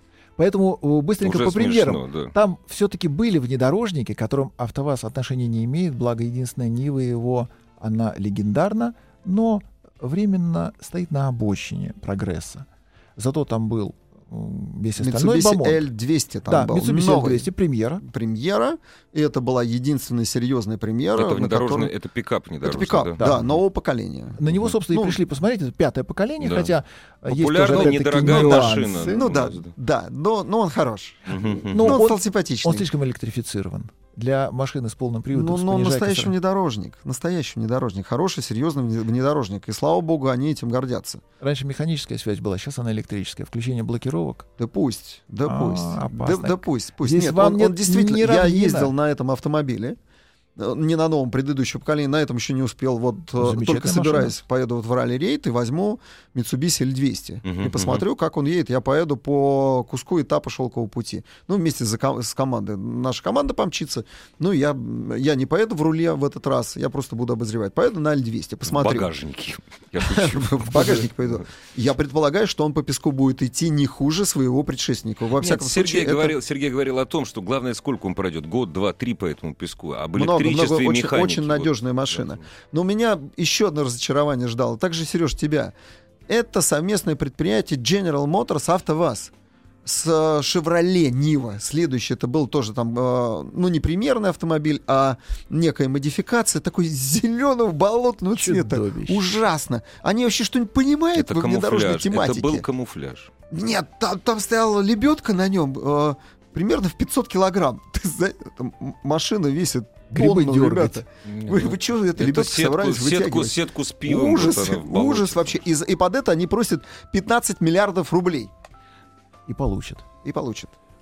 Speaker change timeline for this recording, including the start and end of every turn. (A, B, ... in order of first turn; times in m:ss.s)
0:00.4-0:15.9 A
0:01.2-0:02.3 B
0:15.0-0:17.5 C
0:16.5-0:18.0 A
0:18.0-0:21.9 C
0:21.1-0:23.3 B
0:22.6-0:25.2 C
0:23.2-0:23.4 A
0:24.4-0:29.3 A
0:26.4-0:26.7 B
0:27.3-0:29.7 B
0:29.1-0:32.8 C
0:31.3-0:31.9 B
0:31.7-0:36.3 A
0:35.3-0:41.2 C
0:41.4-0:44.5 A
0:44.6-0:50.0 C
0:45.4-0:48.9 A
0:50.6-1:09.1 C
0:53.4-0:54.4 A
0:57.4-0:58.0 B
1:08.6-1:11.3 B
1:10.0-1:16.3 C
1:15.4-1:22.3 B
1:20.1-1:25.7 C
1:26.3-1:29.3 C
1:29.8-1:42.6 C
1:38.4-1:39.4 A
1:41.1-1:43.3 B
1:43.5-1:58.5 C
1:50.1-1:51.0 A
1:51.2-1:55.6 B
1:59.5-2:00.0 A
2:00.2-2:00.7 C